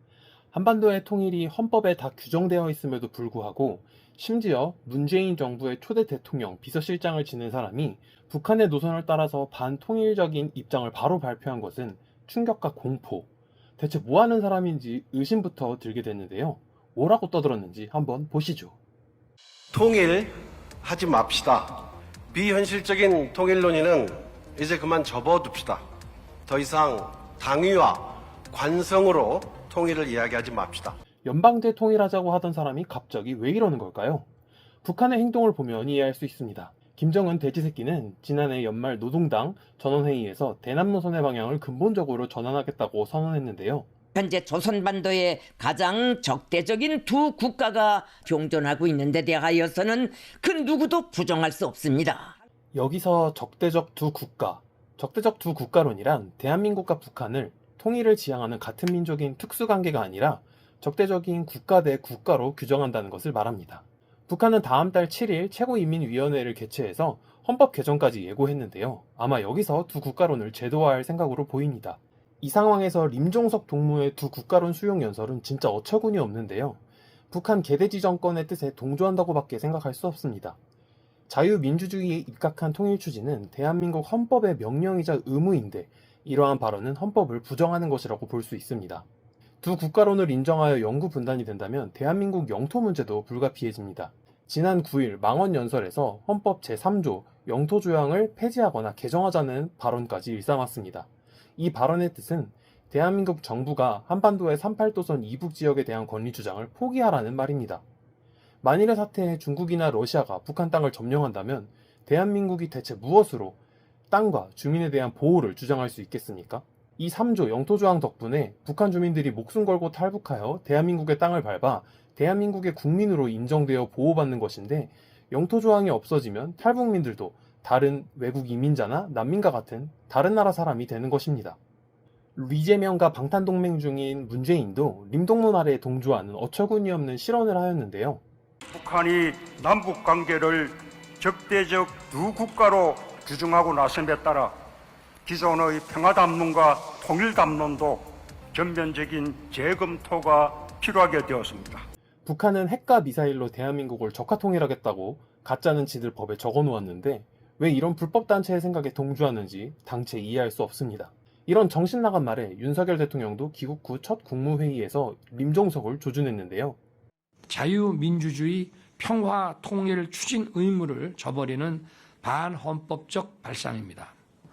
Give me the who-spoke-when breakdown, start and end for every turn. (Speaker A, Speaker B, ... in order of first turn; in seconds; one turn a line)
Speaker A: 0.5-13.3
Speaker A: 13.8-18.8
Speaker B: 19.7-25.8
Speaker B: 26.5-31.0
Speaker A: 31.2-34.2
Speaker A: 34.8-43.9
Speaker C: 44.1-52.3
Speaker A: 52.7-76.8
Speaker A: 77.3-80.6
Speaker A: 81.3-89.0
Speaker A: 89.6-107.8
Speaker A: 108.6-113.6
Speaker A: 114.1-131.6
Speaker A: 132.3-138.2
Speaker D: 138.7-144.5
Speaker D: 145.2-151.8
Speaker A: 152.2-166.8
Speaker E: 167.5-174.1